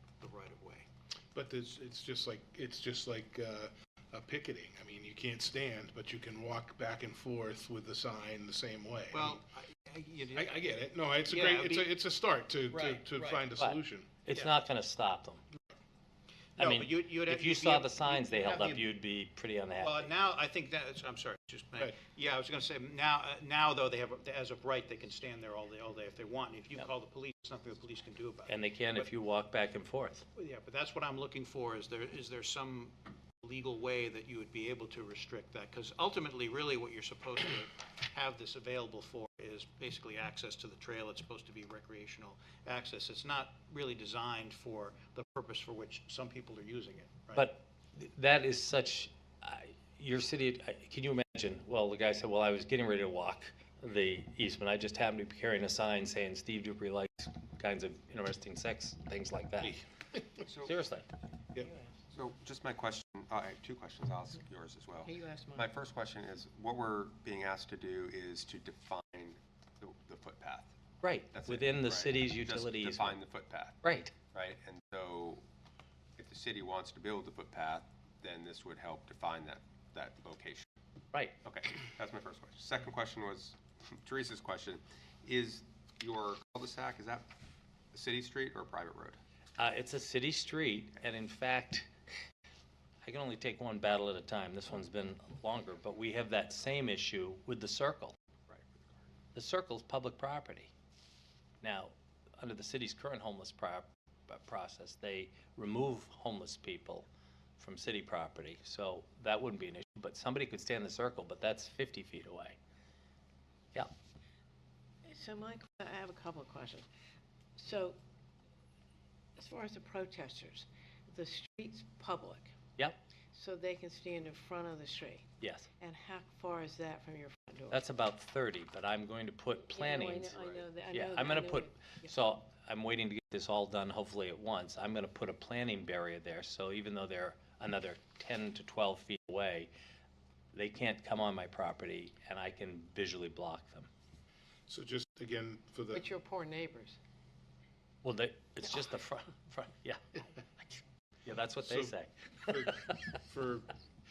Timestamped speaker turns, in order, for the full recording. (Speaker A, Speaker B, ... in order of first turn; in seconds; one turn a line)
Speaker A: 0.2-0.9
Speaker B: 1.3-9.4
Speaker A: 9.1-10.6
Speaker B: 10.3-14.1
Speaker A: 11.2-12.0
Speaker A: 12.7-13.5
Speaker C: 13.6-15.4
Speaker A: 14.3-14.6
Speaker A: 16.6-18.9
Speaker C: 16.6-20.1
Speaker A: 19.8-29.1
Speaker C: 28.5-30.2
Speaker A: 30.4-47.5
Speaker C: 47.3-59.8
Speaker B: 59.6-60.5
Speaker D: 60.4-60.8
Speaker C: 60.6-61.1
Speaker D: 62.1-70.8
Speaker E: 65.0-65.7
Speaker C: 71.0-73.2
Speaker D: 71.3-73.8
Speaker C: 73.8-74.1
Speaker D: 74.3-75.4
Speaker D: 76.2-80.7
Speaker D: 81.4-87.3
Speaker D: 87.9-89.2
Speaker C: 89.6-91.9
Speaker C: 93.0-98.2
Speaker D: 98.5-99.1
Speaker C: 99.3-100.7
Speaker C: 101.6-112.6
Speaker E: 115.0-116.9
Speaker E: 117.6-118.0
Speaker E: 119.4-122.5
Speaker E: 123.3-125.3
Speaker C: 125.4-125.7
Speaker E: 125.8-127.8
Speaker C: 127.7-130.4
Speaker E: 129.7-132.1
Speaker D: 130.3-130.6
Speaker C: 130.9-139.7
Speaker C: 140.5-143.9
Speaker B: 144.7-146.1
Speaker E: 145.9-147.0
Speaker C: 148.0-150.3
Speaker C: 151.2-153.0
Speaker B: 151.6-153.7